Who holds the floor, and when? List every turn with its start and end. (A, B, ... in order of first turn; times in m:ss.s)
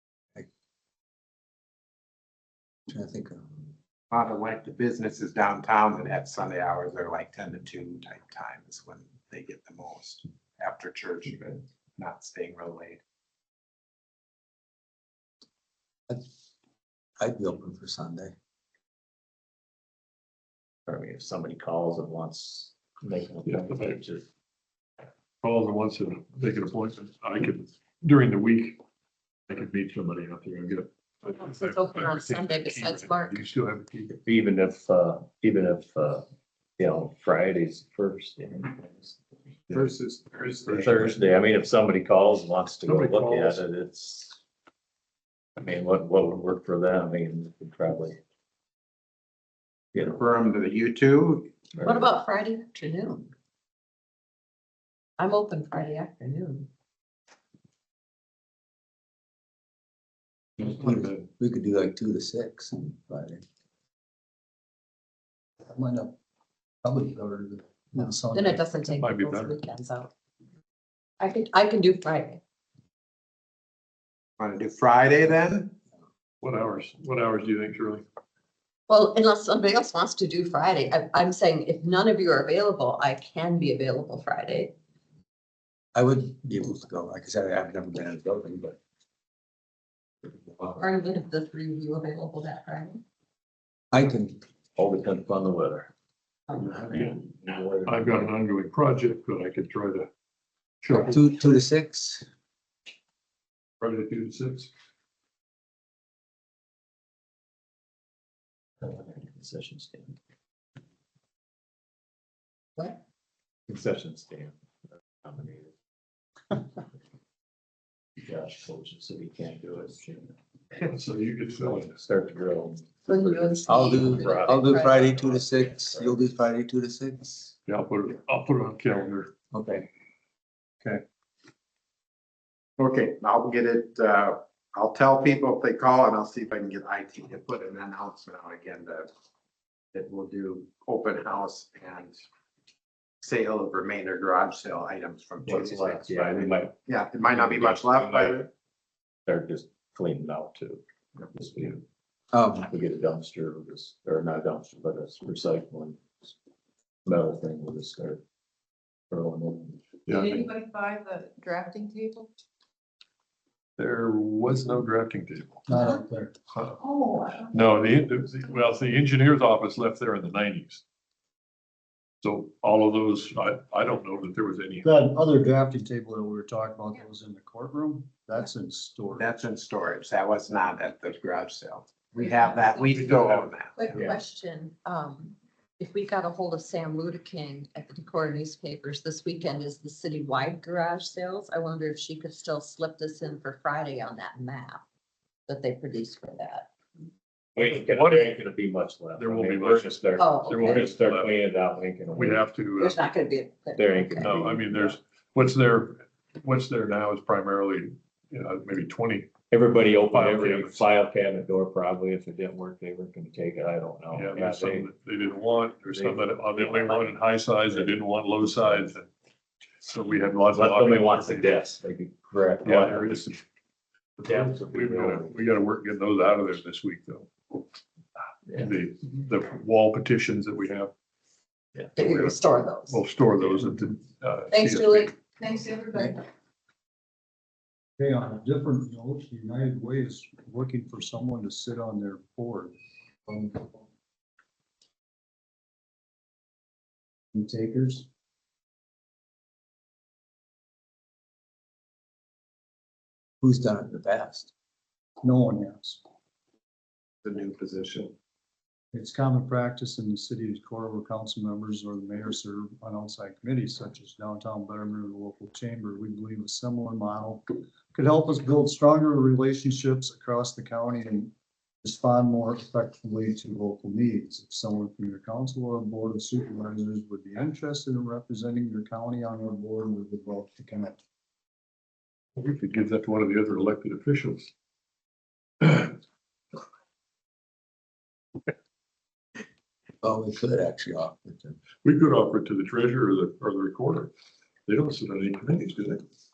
0:02.9-0:03.6 A
0:04.1-0:13.0 B
0:17.2-0:18.3 A
0:20.9-0:24.2 C
0:23.4-0:24.0 D
0:25.4-0:28.8 D
0:29.5-0:34.2 D
0:31.2-0:33.4 E
0:34.2-0:36.2 C
0:36.8-0:39.2 C
0:39.7-0:41.1 B
0:40.7-0:41.1 D
0:40.7-0:44.4 C
0:42.8-0:43.6 D
0:45.6-0:48.2 C
0:50.0-0:51.5 B
0:51.7-0:52.1 C
0:51.8-0:53.3 E
0:55.2-0:56.7 E
1:00.6-1:03.4 A
1:05.7-1:06.2 F
1:06.8-1:08.6 F
1:08.3-1:10.1 E
1:08.9-1:09.6 D
1:11.2-1:12.4 E
1:14.4-1:15.8 B
1:16.4-1:18.0 D
1:18.9-1:24.7 E
1:25.9-1:28.8 A
1:30.3-1:30.7 A
1:30.8-1:33.0 E
1:33.9-1:34.4 A
1:34.8-1:35.9 C
1:36.6-1:37.2 D
1:36.6-1:38.3 C
1:37.8-1:40.1 D
1:40.8-1:41.1 D
1:41.1-1:42.2 A
1:43.8-1:44.7 D
1:48.8-1:50.2 C
1:53.7-1:54.6 C
1:55.2-1:55.7 C
1:58.2-2:00.3 C
2:00.8-2:02.0 D
2:01.8-2:06.2 C
2:03.1-2:05.4 E
2:03.7-2:07.5 A
2:07.7-2:09.3 D
2:09.5-2:09.9 A
2:12.8-2:19.1 B
2:19.9-2:22.2 B
2:23.2-2:28.5 B
2:25.4-2:26.7 C
2:27.3-2:28.5 C
2:29.2-2:31.8 C
2:32.3-2:32.7 A
2:32.6-2:36.3 C
2:37.0-2:38.2 C
2:39.1-2:39.8 C
2:40.1-2:40.5 D
2:40.1-2:42.3 G
2:43.8-2:45.6 D
2:45.7-2:46.3 F
2:46.5-2:46.8 D
2:47.4-2:50.8 D
2:52.2-2:54.9 D
2:54.8-2:59.3 F
2:59.1-3:03.8 B
3:02.2-3:02.9 E
3:02.9-3:03.5 D
3:03.7-3:14.8 E
3:03.9-3:04.2 C
3:15.5-3:16.7 E
3:17.6-3:22.4 C
3:17.6-3:18.4 D
3:19.2-3:21.4 D
3:20.2-3:20.8 E
3:22.1-3:23.0 D
3:22.8-3:24.4 E
3:23.8-3:25.0 C
3:24.1-3:29.4 D
3:29.5-3:34.9 C
3:29.9-3:30.8 D
3:34.1-3:39.1 D
3:35.9-3:38.9 C
3:39.8-3:41.6 D
3:40.5-3:43.3 C
3:42.6-3:43.4 D
3:44.2-3:47.3 D
3:44.2-3:45.3 C
3:48.5-3:50.9 D
3:52.0-3:53.0 E
3:52.0-3:55.1 D
3:54.5-3:55.8 E
3:58.0-4:02.8 F
4:03.3-4:03.6 F
4:07.3-4:08.1 F
4:13.4-4:14.5 A
4:15.2-4:16.0 F
4:17.2-4:18.1 B
4:18.9-4:31.3 F
4:31.8-4:41.0 F
4:42.4-4:44.5 D
4:45.6-4:45.9 D
4:50.0-4:51.6 A
4:51.8-4:54.1 D
4:54.7-4:56.0 D